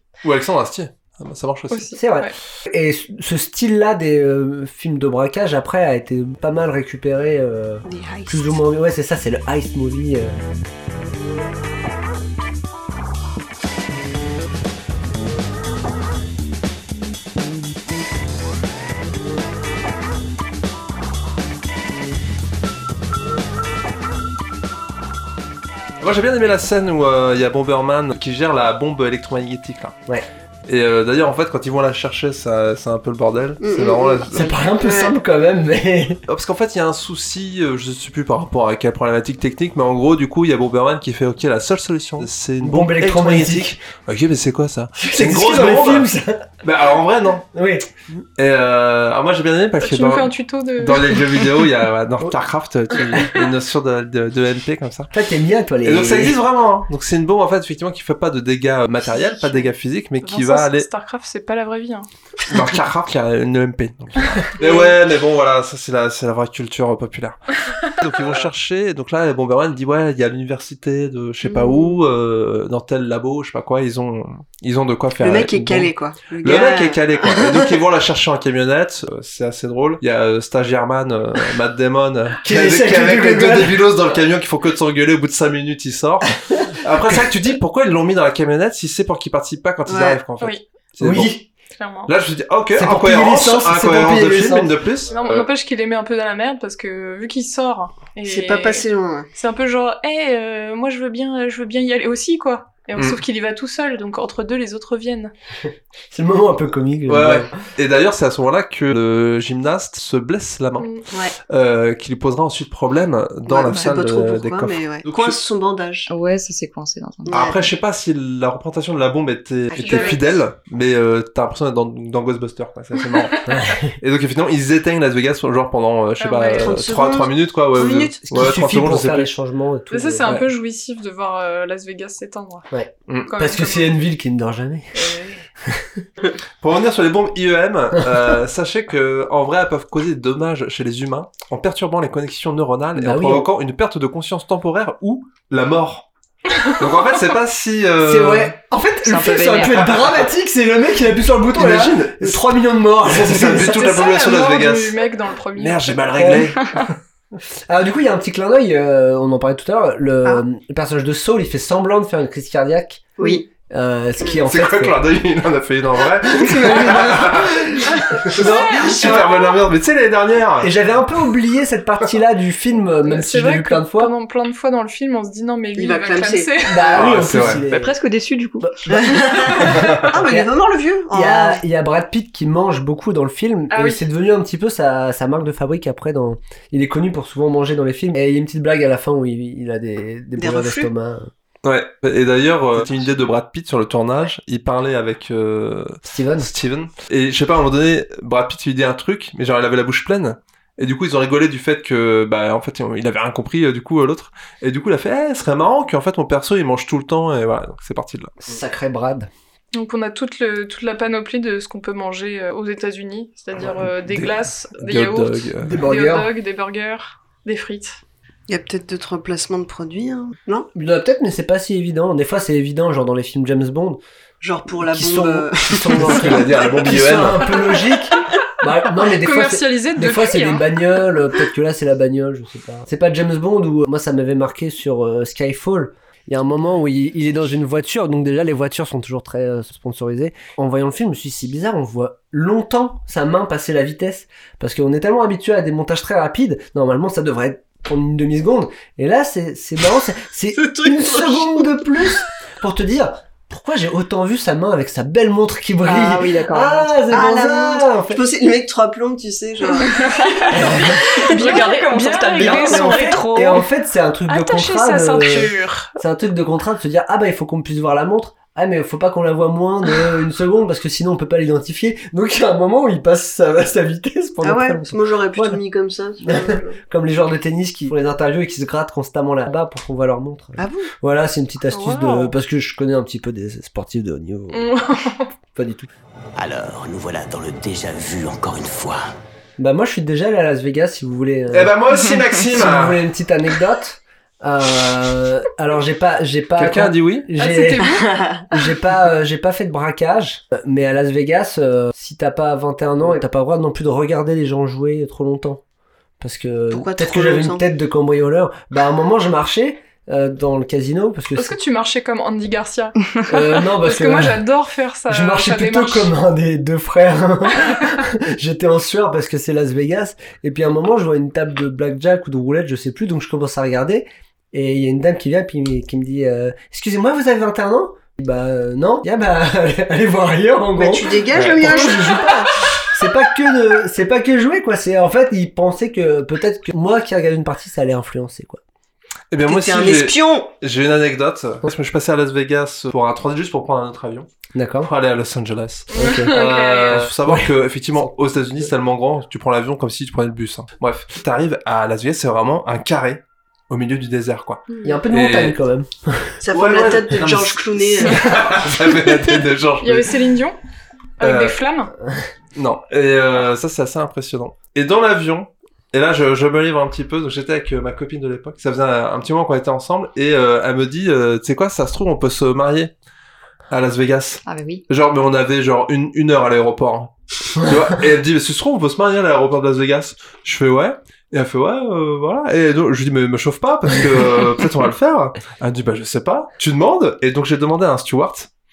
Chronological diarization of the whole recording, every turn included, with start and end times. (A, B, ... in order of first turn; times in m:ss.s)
0:00.2-0:01.9 A
0:01.7-0:02.3 B
0:02.0-0:10.4 C
0:07.8-0:08.6 D
0:26.0-0:30.0 A
0:30.7-0:34.6 A
0:33.6-0:35.1 D
0:34.3-0:36.2 C
0:36.3-0:46.1 A
0:42.2-0:43.8 C
0:45.0-0:46.4 C
0:46.6-0:47.4 A
0:47.5-0:47.9 C
0:48.4-0:55.1 A
0:49.8-0:51.4 B
0:55.1-0:56.4 C
0:55.8-1:00.9 A
1:00.2-1:02.1 B
1:02.5-1:07.4 A
1:04.6-1:04.9 D
1:08.0-1:26.3 A
1:11.4-1:12.0 D
1:15.2-1:17.8 D
1:22.4-1:23.9 C
1:26.8-1:31.4 A
1:29.8-1:30.2 D
1:31.0-1:31.4 C
1:31.8-1:32.1 B
1:32.0-1:35.4 A
1:32.7-1:34.7 C
1:35.1-1:38.8 B
1:38.2-1:39.3 D
1:39.4-1:45.3 B
1:46.1-1:47.5 C
1:47.1-1:50.9 A
1:50.8-1:51.0 B
1:51.5-1:55.4 A
1:53.4-1:56.1 D
1:56.1-1:57.4 E
1:57.3-1:57.7 D
1:57.3-2:09.3 A
1:59.7-2:00.2 D
1:59.7-2:00.2 B
2:03.5-2:03.9 C
2:06.2-2:06.7 B
2:06.6-2:08.2 D
2:08.2-2:10.4 C
2:09.9-2:12.7 B
2:12.7-2:15.1 C
2:13.3-2:14.0 B
2:14.9-2:15.4 B
2:15.7-2:16.0 C
2:16.6-2:26.1 A
2:22.9-2:23.5 C
2:26.7-2:28.5 A
2:28.0-2:34.0 C
2:29.0-2:29.9 E
2:29.8-2:30.1 A
2:31.5-2:32.4 A
2:33.1-2:35.0 A
2:33.6-2:36.1 B
2:35.5-2:36.9 A
2:36.1-2:36.5 C
2:37.7-2:45.0 C
2:43.2-2:43.4 D
2:44.4-2:50.7 A
2:46.3-2:49.2 C
2:48.8-2:49.5 D
2:50.6-2:54.1 C
2:53.0-2:57.0 B
2:55.8-2:56.8 D
2:56.7-2:57.9 C
2:56.9-2:57.6 A
2:57.7-2:58.7 E
2:58.6-3:00.5 C
2:58.9-3:01.6 D
2:59.7-3:00.1 A
3:01.1-3:11.3 C
3:03.7-3:04.0 B
3:10.4-3:10.9 D
3:11.6-3:28.3 A
3:16.0-3:16.5 C
3:28.4-3:29.3 C
3:29.7-3:38.0 B
3:33.8-3:35.8 A
3:35.6-3:36.3 C
3:38.5-3:40.7 D
3:40.7-3:44.0 C
3:44.4-3:46.9 D
3:44.8-4:18.2 C
3:45.9-3:47.6 A
3:49.0-3:50.8 B
4:10.6-4:11.7 D
4:15.8-4:16.9 E
4:17.1-4:21.7 D
4:20.5-4:20.9 C
4:20.6-4:23.6 E
4:21.2-4:23.6 B
4:22.4-4:23.0 D
4:23.3-4:35.6 C
4:24.3-4:25.9 B
4:34.4-4:36.8 D
4:36.2-4:44.7 C
4:40.6-4:40.9 D
4:41.7-4:42.3 B
4:44.5-4:45.3 B
4:45.5-4:45.9 C
4:46.4-4:49.1 F
4:49.6-4:51.7 C
4:51.5-4:53.0 A
4:52.5-4:57.9 C
4:56.6-4:57.3 A
4:57.4-4:58.2 B
4:58.0-4:58.4 D
4:58.5-5:05.6 C
5:06.2-5:11.6 C
5:06.7-5:07.6 D
5:11.3-5:16.1 B
5:13.3-5:14.4 C
5:15.1-5:38.6 C
5:17.6-5:18.0 B
5:30.8-5:32.5 D
5:31.4-5:31.7 A
5:39.3-5:44.3 A
5:39.4-5:40.5 D
5:44.5-5:44.9 C
5:44.8-5:55.6 A
5:45.9-5:47.1 B
5:45.9-5:46.3 C
5:47.2-5:48.7 C
5:54.7-5:55.0 D
5:54.8-5:56.4 C
5:56.4-5:58.5 D
5:56.5-6:00.1 A
5:59.8-6:00.6 B
6:01.2-6:01.9 B
6:01.2-6:01.6 A
6:02.6-6:12.9 A
6:13.7-6:28.5 A
6:14.4-6:14.8 E